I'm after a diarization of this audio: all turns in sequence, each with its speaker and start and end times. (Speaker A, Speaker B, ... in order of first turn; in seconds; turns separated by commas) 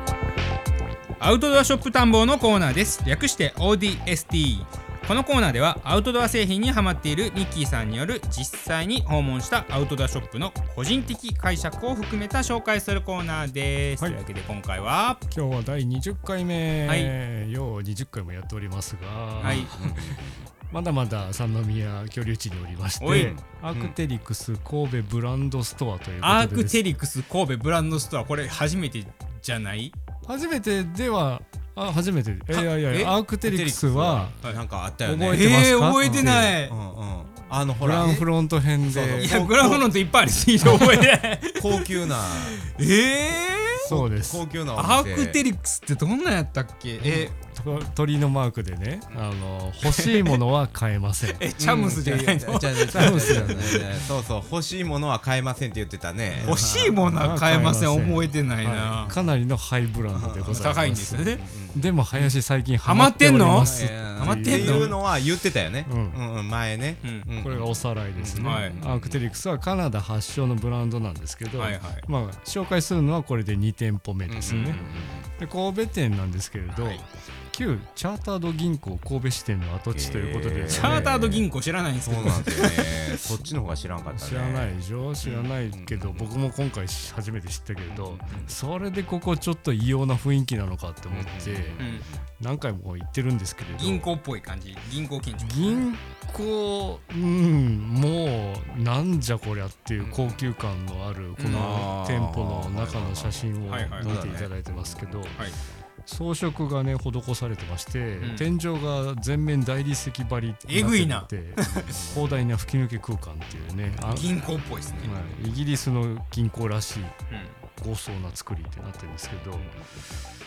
Speaker A: 1.2-15.2, Speaker B: 15.3-20.2, Speaker A: 16.9-17.1, Speaker A: 19.4-19.7, Speaker C: 19.4-20.5, Speaker B: 20.7-26.8, Speaker A: 23.0-23.3, Speaker C: 23.1-24.0, Speaker A: 26.2-29.9, Speaker B: 30.2-34.4, Speaker A: 32.5-33.1, Speaker C: 33.4-40.0, Speaker B: 35.0-36.6, Speaker A: 35.3-36.8, Speaker B: 37.8-39.3, Speaker A: 39.2-43.9, Speaker C: 41.5-42.6, Speaker C: 43.8-45.4, Speaker B: 43.9-44.4, Speaker A: 44.8-47.3, Speaker B: 47.0-51.5, Speaker A: 49.9-50.4, Speaker A: 51.2-53.8, Speaker C: 51.6-57.0, Speaker B: 52.9-53.9, Speaker B: 56.4-65.0, Speaker A: 56.4-59.1, Speaker C: 60.1-60.7, Speaker A: 60.5-61.4, Speaker C: 61.3-62.3, Speaker A: 62.8-65.0, Speaker C: 63.7-69.2, Speaker B: 65.8-66.2, Speaker A: 67.0-67.3, Speaker B: 67.4-74.9, Speaker A: 68.4-68.8, Speaker A: 71.6-72.0, Speaker C: 74.3-75.3, Speaker A: 74.4-74.8, Speaker B: 75.4-81.4, Speaker C: 76.7-77.0, Speaker C: 79.9-81.5, Speaker A: 80.7-83.2, Speaker C: 82.0-86.3, Speaker B: 84.1-91.8, Speaker C: 87.9-88.5, Speaker C: 91.1-92.2, Speaker A: 91.8-92.0, Speaker B: 92.4-94.2, Speaker A: 93.7-95.8, Speaker B: 95.4-105.5, Speaker C: 100.0-100.5, Speaker A: 101.4-101.9, Speaker C: 101.5-105.4, Speaker A: 103.7-104.5, Speaker B: 106.0-114.4, Speaker A: 108.2-108.5, Speaker A: 110.7-111.9, Speaker C: 111.7-112.4, Speaker C: 113.9-115.3, Speaker A: 114.1-115.1, Speaker B: 115.0-117.2, Speaker A: 117.3-117.6, Speaker B: 117.8-119.7, Speaker C: 119.6-120.3